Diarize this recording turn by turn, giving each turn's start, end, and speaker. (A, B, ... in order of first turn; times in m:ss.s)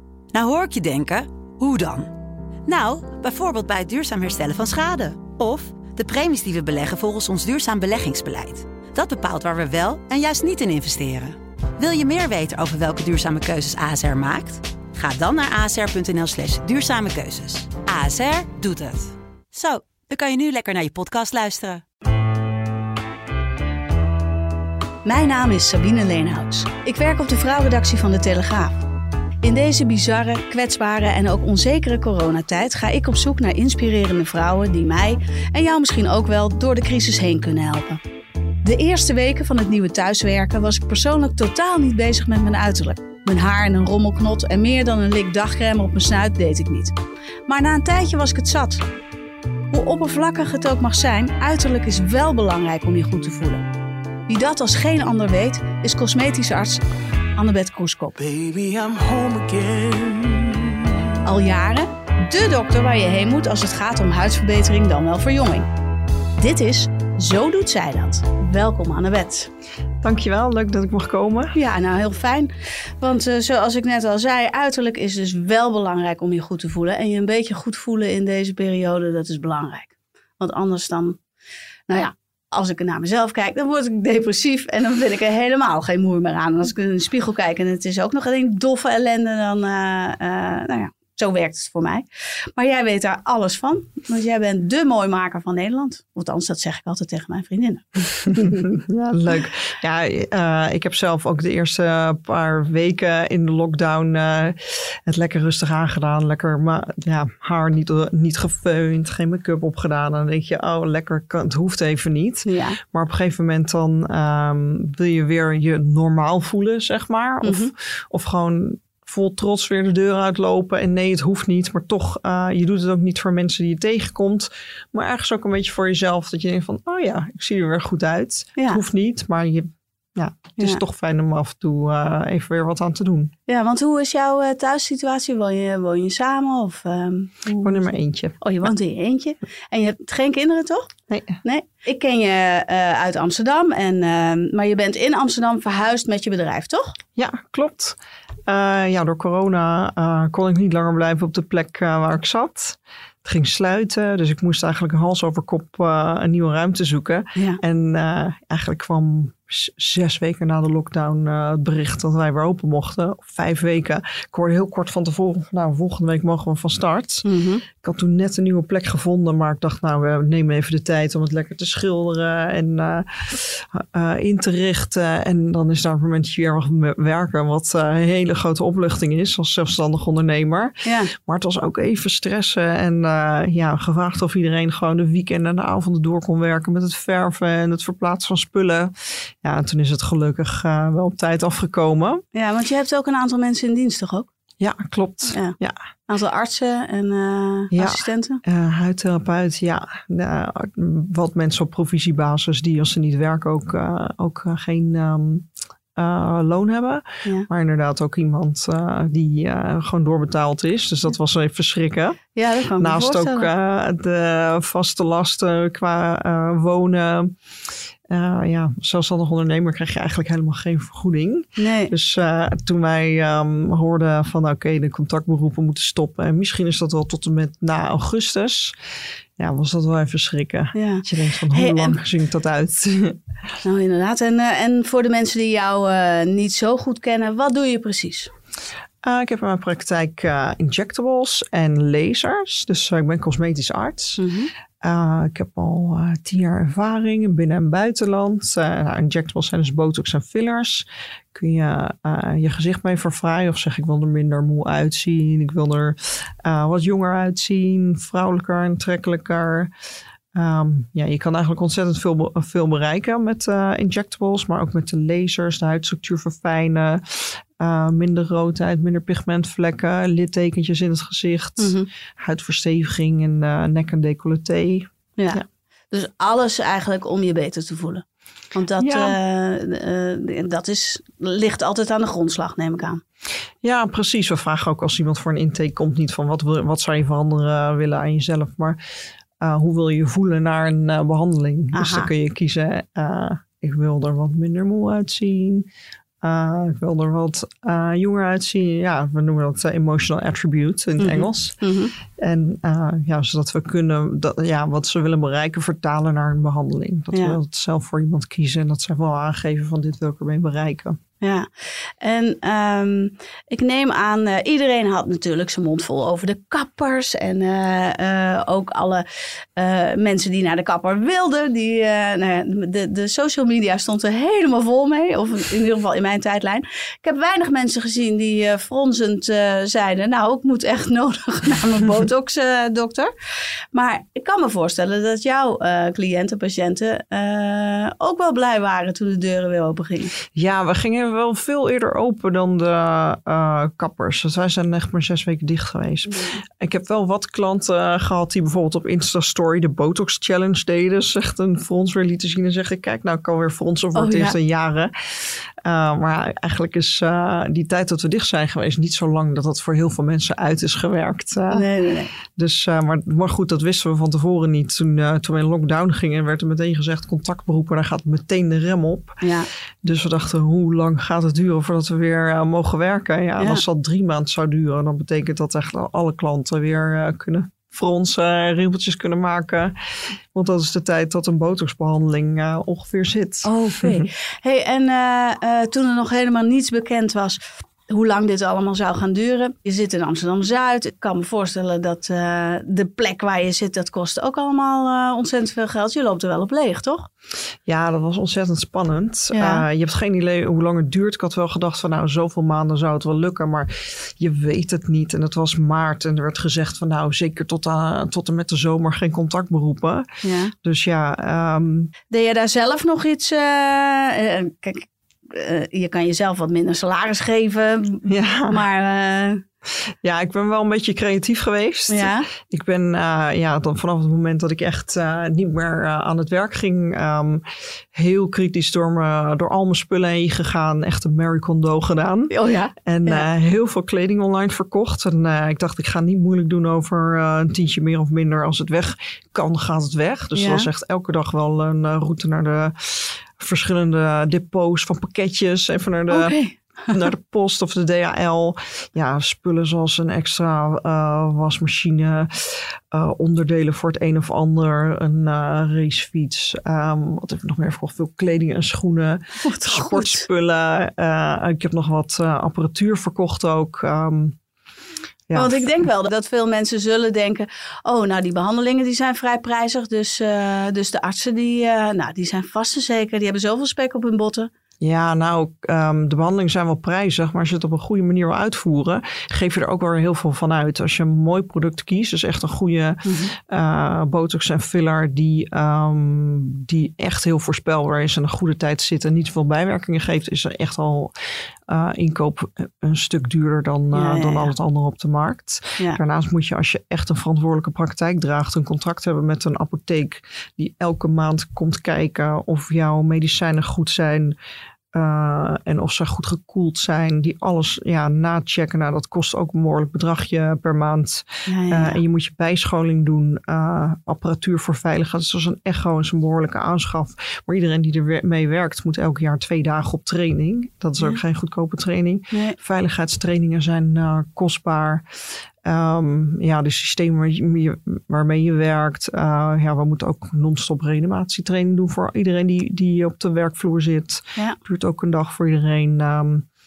0:00.3-0:02.1 A
0:02.6-0:21.8 A
0:25.0-0:28.8 B
0:29.4-0:38.0 B
0:38.6-0:47.0 B
0:47.5-0:48.8 B
0:49.7-0:53.7 B
0:54.3-0:56.8 B
0:57.4-0:58.2 B
0:58.2-1:00.9 C
1:01.2-1:05.7 B
1:06.4-1:09.5 B
1:10.0-1:11.6 D
1:11.5-1:21.2 B
1:21.9-1:38.7 B
1:38.3-2:13.3 D
1:52.4-1:52.8 B
1:57.4-1:57.7 B
2:13.5-2:20.9 B
2:17.6-2:18.4 D
2:21.1-2:21.4 D
2:21.4-2:27.0 B
2:27.2-3:12.2 D
2:47.2-2:47.6 B
3:00.8-3:01.1 B
3:12.3-3:14.3 B
3:14.6-3:15.8 D
3:16.1-3:18.4 B
3:17.7-3:32.2 D
3:32.4-3:33.5 B
3:32.8-3:37.4 D
3:38.1-3:48.8 D
3:41.6-3:41.9 B
3:49.4-3:53.2 D
3:50.8-3:52.0 B
3:53.6-3:58.3 B
3:59.0-4:04.2 D
4:04.2-4:04.5 B
4:04.8-4:19.7 D
4:20.3-4:35.4 D
4:31.6-4:31.9 B
4:35.2-4:43.0 B
4:38.8-4:39.2 D
4:43.6-4:48.8 D
4:49.4-4:55.6 D
4:51.7-4:52.1 B
4:56.2-5:01.6 D
5:01.0-5:01.9 B
5:02.2-5:11.0 D
5:11.2-5:33.1 B
5:33.7-5:40.1 B
5:40.3-6:01.7 D
5:46.1-5:46.4 B
5:53.9-5:54.4 B
6:01.5-6:02.1 B
6:02.2-6:09.2 D
6:09.2-6:09.5 B
6:09.8-6:19.8 D
6:13.4-6:13.6 B
6:20.3-6:24.1 D
6:23.4-6:37.1 B
6:37.6-6:51.9 D
6:39.3-6:39.6 B
6:50.2-6:50.5 B
6:52.1-6:59.4 B
6:58.1-6:58.6 D
6:59.9-7:26.3 D
7:01.9-7:02.3 B
7:12.3-7:13.2 B
7:20.3-7:20.7 B
7:26.1-7:26.9 B
7:26.9-7:44.4 D
7:39.4-7:40.2 B
7:45.3-7:45.6 D
7:45.3-7:54.5 B
7:54.8-8:11.1 D
8:03.0-8:03.3 B
8:11.7-8:24.4 D
8:13.9-8:14.5 B
8:24.9-8:45.0 D
8:31.5-8:32.0 B
8:42.3-8:42.6 B
8:45.6-8:56.5 D